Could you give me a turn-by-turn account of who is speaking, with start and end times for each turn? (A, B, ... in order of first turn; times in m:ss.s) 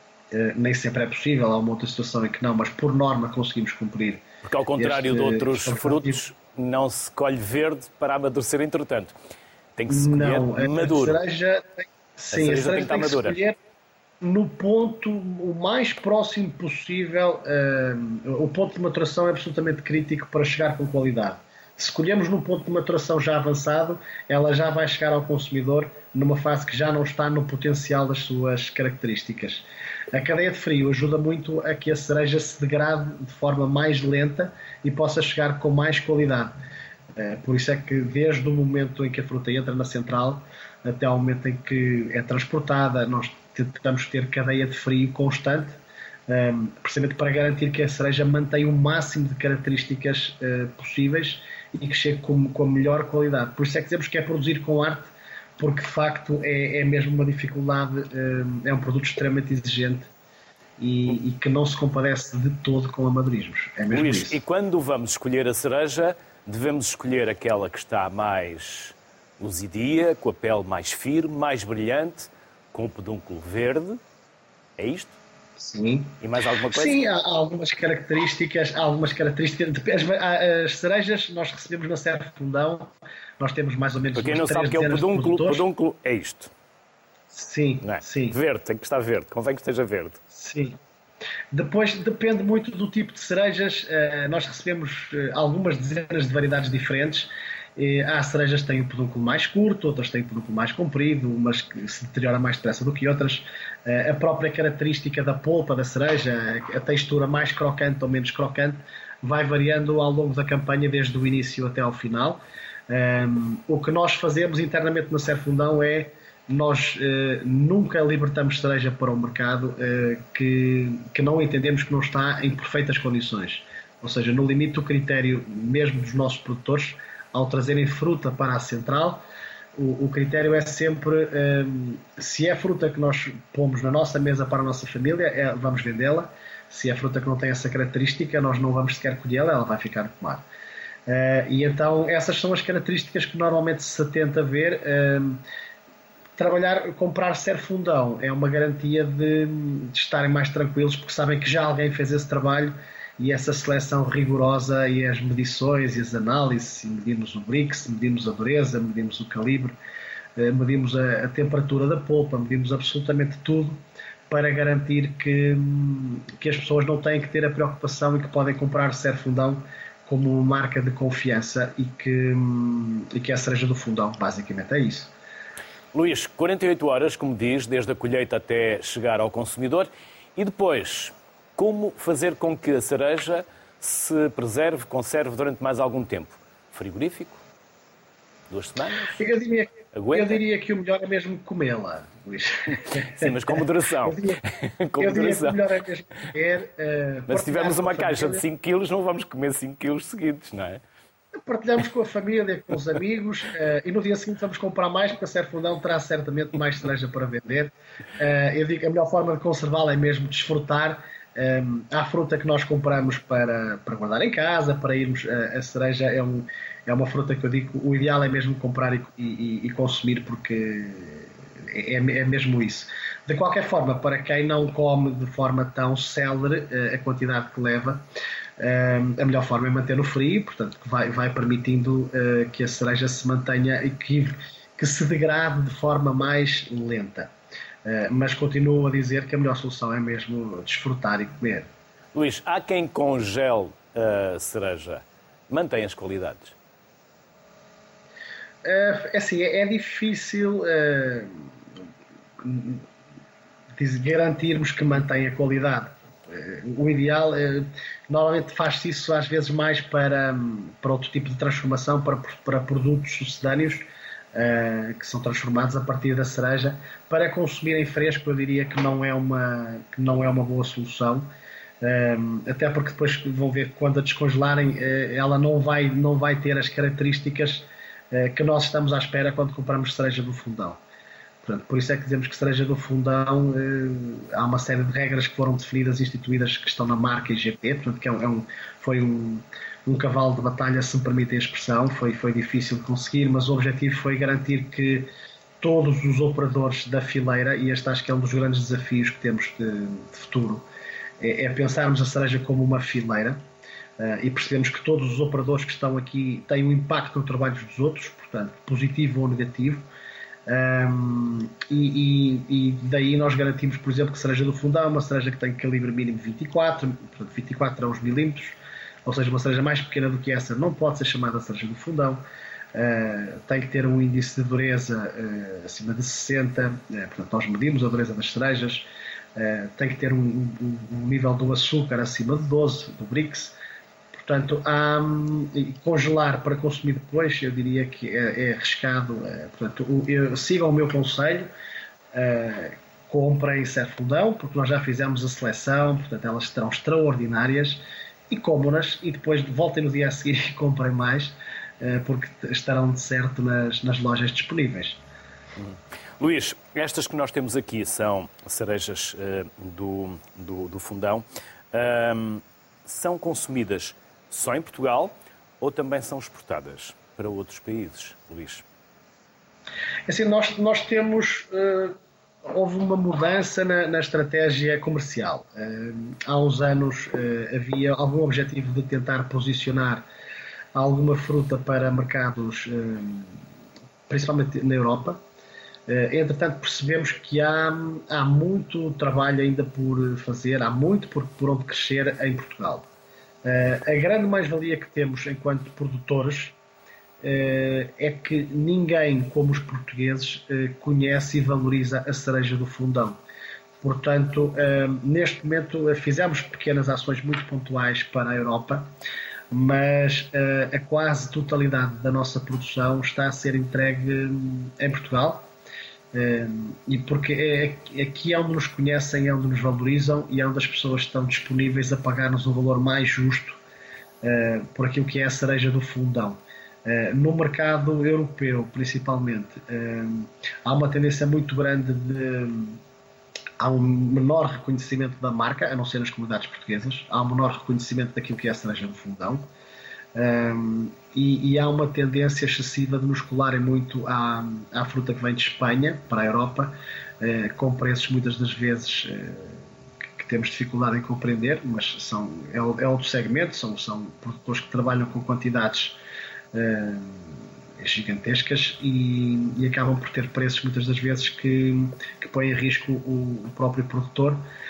0:00.3-0:04.2 A
0:04.4-0:09.1 B
0:04.8-0:06.2 A
0:09.8-0:11.2 B
0:09.9-0:13.6 A
0:12.3-0:13.4 B
0:14.2-0:36.6 A
0:37.2-1:00.1 A
1:00.8-1:04.4 A
1:03.9-1:14.0 B
1:14.8-1:15.2 B
1:15.6-1:25.7 A
1:16.2-1:17.0 B
1:24.1-1:26.5 B
1:27.3-1:28.4 A
1:27.8-1:30.2 B
1:30.3-1:30.8 A
1:31.5-2:09.2 A
2:09.8-2:20.4 A
2:21.1-2:25.4 A
2:26.4-2:39.8 A
2:40.4-2:55.1 A
2:55.9-3:07.4 B
3:08.5-3:09.2 B
3:09.2-3:14.4 A
3:09.9-3:10.4 B
3:12.7-3:15.6 B
3:15.0-3:18.4 A
3:17.3-3:20.8 B
3:21.3-3:48.1 A
3:48.6-3:57.3 A
3:57.8-4:01.7 A
4:02.1-4:06.5 B
4:08.6-4:11.5 A
4:12.4-4:12.8 A
4:13.8-4:40.8 A
4:41.4-5:00.6 A
5:01.2-5:03.4 A
5:04.0-5:09.9 A
5:10.5-5:22.2 A
5:22.7-5:33.6 A
5:34.1-5:41.5 A
5:42.1-5:55.0 A
5:55.6-6:08.6 B
6:10.1-6:20.1 A
6:20.7-6:23.4 A
6:24.1-6:25.2 A
6:25.9-6:32.9 A
6:33.4-6:36.6 A
6:37.2-6:43.2 A
6:43.8-6:48.9 A
6:49.5-6:55.5 A
6:56.1-7:03.6 A
7:04.2-7:12.8 A
7:13.6-7:19.5 A
7:20.1-7:29.6 A
7:30.2-7:36.0 A
7:36.5-7:44.4 A